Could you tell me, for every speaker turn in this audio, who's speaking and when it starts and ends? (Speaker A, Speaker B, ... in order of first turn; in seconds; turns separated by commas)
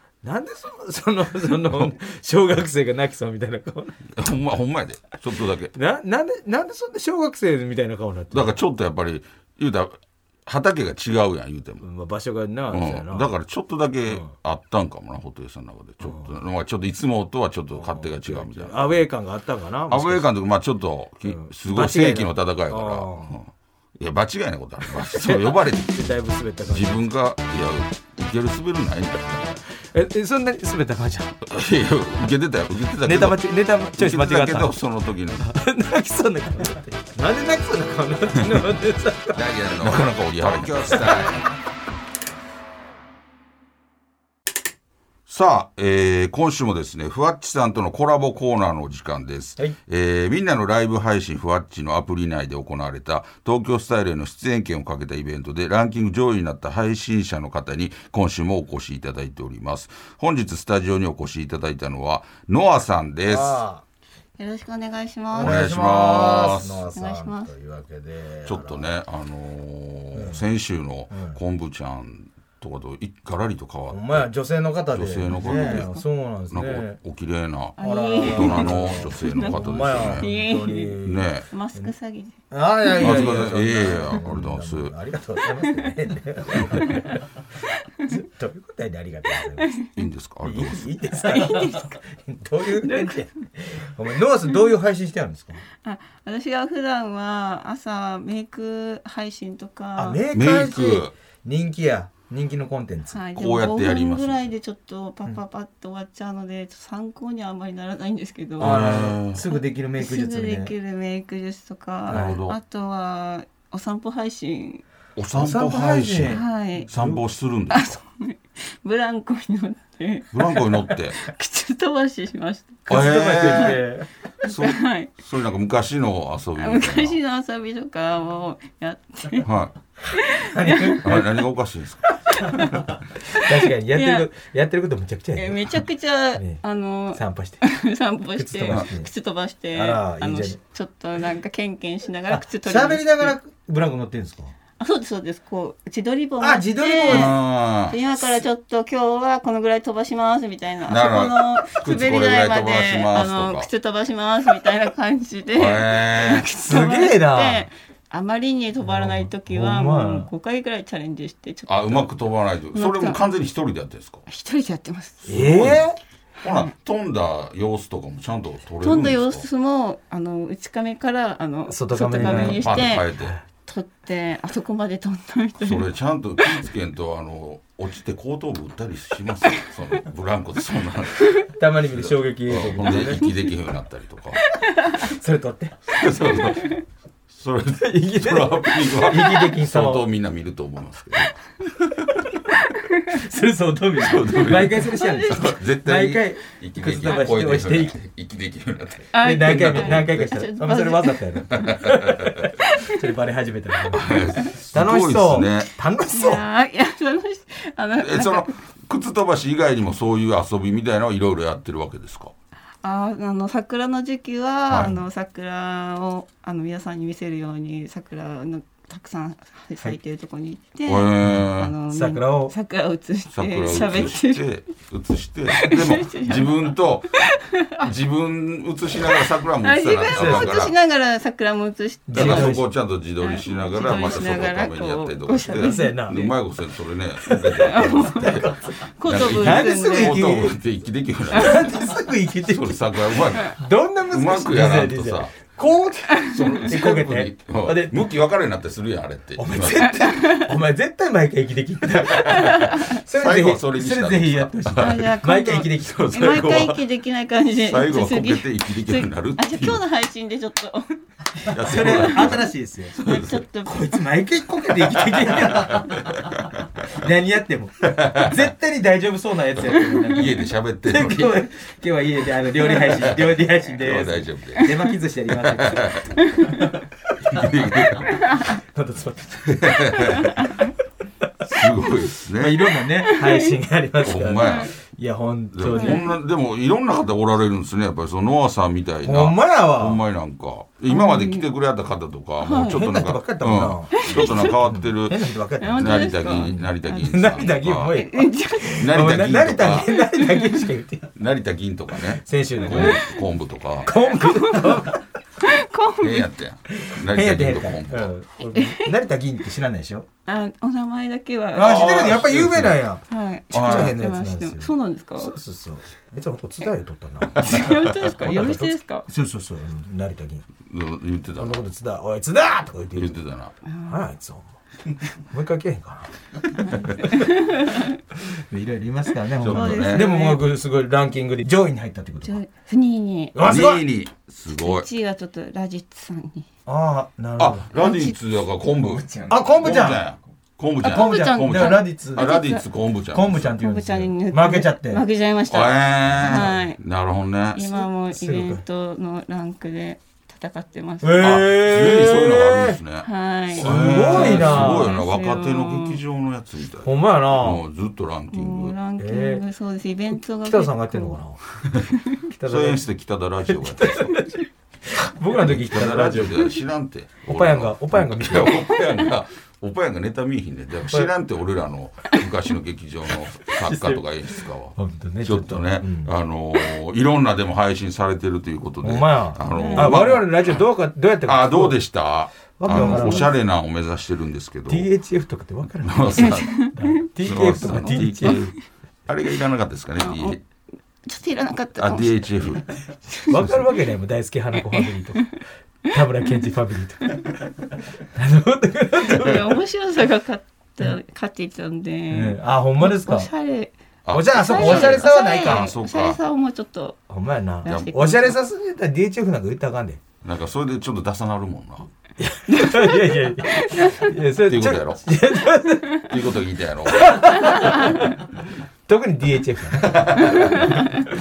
Speaker A: 0.2-4.2, Speaker B: 4.1-5.7, Speaker A: 5.7-8.5, Speaker B: 8.3-11.8, Speaker A: 11.8-13.3, Speaker B: 12.7-19.1, Speaker A: 16.0-16.3, Speaker A: 17.7-20.3, Speaker B: 19.9-25.9, Speaker A: 21.2-23.4, Speaker A: 25.0-26.9, Speaker B: 26.7-29.6, Speaker A: 29.7-31.4, Speaker B: 31.4-35.5, Speaker A: 33.0-34.7, Speaker A: 35.4-40.0, Speaker B: 39.3-41.5, Speaker A: 40.9-41.2, Speaker B: 45.3-63.6, Speaker A: 63.3-63.8, Speaker C: 64.4-65.6, Speaker A: 65.3-68.9, Speaker B: 65.4-66.9, Speaker C: 66.9-67.5, Speaker B: 68.5-74.2, Speaker A: 70.1-70.4, Speaker A: 71.1-71.4, Speaker A: 73.9-77.0, Speaker B: 74.9-80.3, Speaker C: 75.6-75.9, Speaker C: 77.8-82.4, Speaker A: 77.8-81.9, Speaker B: 81.0-81.5, Speaker A: 82.5-87.2, Speaker C: 83.0-83.3, Speaker B: 83.0-84.9, Speaker C: 86.7-87.0, Speaker A: 88.0-89.8, Speaker C: 89.6-89.9, Speaker B: 90.0-90.9, Speaker A: 90.4-95.6, Speaker C: 91.1-92.0, Speaker C: 92.8-93.3, Speaker C: 95.8-100.2, Speaker A: 100.0-103.2, Speaker B: 100.3-101.1, Speaker C: 103.1-114.8, Speaker B: 103.3-104.5, Speaker B: 108.6-109.4, Speaker A: 108.6-110.7, Speaker B: 112.1-112.6, Speaker A: 112.1-112.4, Speaker B: 115.2-118.0, Speaker A: 115.3-117.2, Speaker C: 116.3-116.9, Speaker C: 117.7-123.8, Speaker B: 120.3-121.2, Speaker A: 122.9-124.1, Speaker B: 122.9-123.8, Speaker C: 124.4-125.1, Speaker B: 124.4-127.2, Speaker C: 126.6-129.5, Speaker B: 129.4-129.7, Speaker C: 130.1-131.3, Speaker A: 130.3-131.3, Speaker B: 131.0-132.1, Speaker C: 132.3-134.2, Speaker A: 132.5-135.8, Speaker C: 135.3-143.3, Speaker A: 137.1-137.6, Speaker A: 138.3-139.1, Speaker A: 139.7-140.6, Speaker A: 142.3-144.5, Speaker C: 144.8-162.1, Speaker A: 146.4-147.3, Speaker B: 147.1-148.0, Speaker B: 150.8-153.7, Speaker B: 155.5-156.5, Speaker A: 156.6-157.7, Speaker A: 158.8-160.3, Speaker B: 161.7-164.2, Speaker C: 162.7-163.2, Speaker C: 164.3-165.2, Speaker B: 165.2-165.9, Speaker A: 165.3-166.0, Speaker B: 166.4-169.5, Speaker C: 166.4-166.7, Speaker C: 168.8-173.1, Speaker A: 171.7-173.4, Speaker B: 172.2-173.3, Speaker C: 173.7-175.9, Speaker B: 175.6-184.4, Speaker A: 181.5-183.3, Speaker C: 184.4-185.0, Speaker A: 185.0-185.9, Speaker B: 185.8-186.8, Speaker B: 187.3-191.4, Speaker A: 187.8-190.0, Speaker A: 193.1-197.9, Speaker B: 194.0-200.3, Speaker C: 194.9-195.5, Speaker C: 199.1-201.7, Speaker A: 199.2-206.4, Speaker B: 201.5-202.5, Speaker C: 202.5-203.1, Speaker B: 203.9-205.7, Speaker C: 206.1-208.5, Speaker B: 208.0-212.3, Speaker C: 212.8-224.6, Speaker B: 214.7-215.0, Speaker B: 220.8-221.7, Speaker A: 221.9-222.5, Speaker B: 223.3-227.1, Speaker C: 225.5-227.9, Speaker B: 227.8-230.7, Speaker C: 229.6-232.6, Speaker A: 230.1-230.6, Speaker A: 232.1-232.7, Speaker B: 232.1-245.3, Speaker C: 233.2-235.9, Speaker A: 235.5-236.3, Speaker A: 237.2-238.8, Speaker C: 237.6-240.3, Speaker A: 239.4-240.6, Speaker A: 241.3-248.1, Speaker B: 246.2-250.0, Speaker A: 249.4-256.3, Speaker C: 250.0-250.5, Speaker C: 252.4-252.8, Speaker B: 253.1-255.1, Speaker C: 254.8-262.4, Speaker B: 255.8-256.8, Speaker B: 257.6-259.8, Speaker A: 261.4-263.0, Speaker B: 261.5-263.4, Speaker C: 263.0-264.0, Speaker A: 263.6-266.4, Speaker B: 265.1-266.9, Speaker A: 266.9-280.4, Speaker B: 267.8-268.5, Speaker B: 269.6-271.4, Speaker B: 272.9-274.7, Speaker C: 274.5-274.9, Speaker B: 275.3-276.2, Speaker C: 276.1-276.6, Speaker B: 277.2-278.3, Speaker C: 278.1-278.4, Speaker B: 279.4-280.5, Speaker C: 280.4-280.7, Speaker B: 281.4-282.8, Speaker A: 282.3-286.1, Speaker C: 283.0-283.6, Speaker B: 284.0-284.7, Speaker B: 285.5-295.2, Speaker C: 285.7-286.2, Speaker A: 289.0-290.0, Speaker C: 290.9-291.5, Speaker C: 292.4-292.9, Speaker A: 292.7-301.1, Speaker C: 293.9-294.6, Speaker C: 295.6-297.2, Speaker B: 295.8-298.0, Speaker C: 297.8-298.8, Speaker B: 298.8-299.9, Speaker C: 300.0-300.7, Speaker B: 301.1-304.0, Speaker A: 302.2-303.0, Speaker C: 302.7-303.1, Speaker A: 303.8-305.0, Speaker C: 304.0-306.3, Speaker B: 306.0-308.1, Speaker A: 306.7-310.1, Speaker C: 308.5-308.9, Speaker C: 310.3-312.2, Speaker A: 311.5-320.4, Speaker B: 311.6-312.8, Speaker C: 313.1-315.3, Speaker B: 313.5-314.0, Speaker C: 317.4-319.1, Speaker B: 320.6-321.6, Speaker A: 321.4-323.2, Speaker B: 322.9-323.5, Speaker C: 323.7-324.0, Speaker A: 323.8-324.5, Speaker A: 325.2-327.2, Speaker C: 326.6-327.9, Speaker A: 328.2-332.4, Speaker B: 329.4-330.1, Speaker C: 329.4-330.4, Speaker C: 332.2-333.7, Speaker A: 333.3-333.8, Speaker B: 333.4-334.9, Speaker C: 334.5-336.5, Speaker A: 336.6-337.7, Speaker B: 337.4-343.6, Speaker C: 337.7-338.1, Speaker A: 339.3-340.1, Speaker A: 340.8-342.3, Speaker C: 340.8-342.6, Speaker A: 343.1-345.0, Speaker C: 343.6-346.8, Speaker B: 345.5-347.8, Speaker C: 347.5-351.5, Speaker A: 348.1-348.6, Speaker A: 351.0-352.8, Speaker B: 351.2-358.8, Speaker C: 353.0-356.0, Speaker A: 353.6-354.9, Speaker A: 356.8-357.6, Speaker C: 358.3-361.2, Speaker A: 359.0-359.4, Speaker A: 360.4-361.4, Speaker B: 361.7-364.1, Speaker A: 362.3-362.8, Speaker A: 363.5-366.5, Speaker B: 365.4-380.6, Speaker A: 367.3-368.7, Speaker A: 373.5-374.0, Speaker A: 374.7-376.1, Speaker A: 378.8-381.8, Speaker C: 379.4-380.1, Speaker B: 381.2-384.9, Speaker A: 382.6-383.3, Speaker C: 382.9-383.1, Speaker A: 384.7-388.5, Speaker B: 385.8-386.6, Speaker C: 386.2-386.9, Speaker B: 387.2-390.4, Speaker C: 387.6-388.5, Speaker C: 390.0-390.4, Speaker C: 391.1-393.3, Speaker B: 391.8-392.6, Speaker A: 393.3-399.6, Speaker C: 394.8-395.3, Speaker C: 399.1-403.7, Speaker A: 402.1-403.3, Speaker B: 404.0-406.2, Speaker A: 404.1-405.7, Speaker C: 404.4-407.0, Speaker A: 407.1-410.0, Speaker C: 407.6-408.3, Speaker B: 407.6-408.0, Speaker B: 410.2-411.9, Speaker A: 412.2-416.1, Speaker C: 412.5-414.1, Speaker B: 414.4-415.0, Speaker B: 416.1-417.3, Speaker A: 416.9-418.2, Speaker C: 417.3-418.0, Speaker A: 418.9-420.9, Speaker B: 419.9-420.8, Speaker C: 420.2-420.9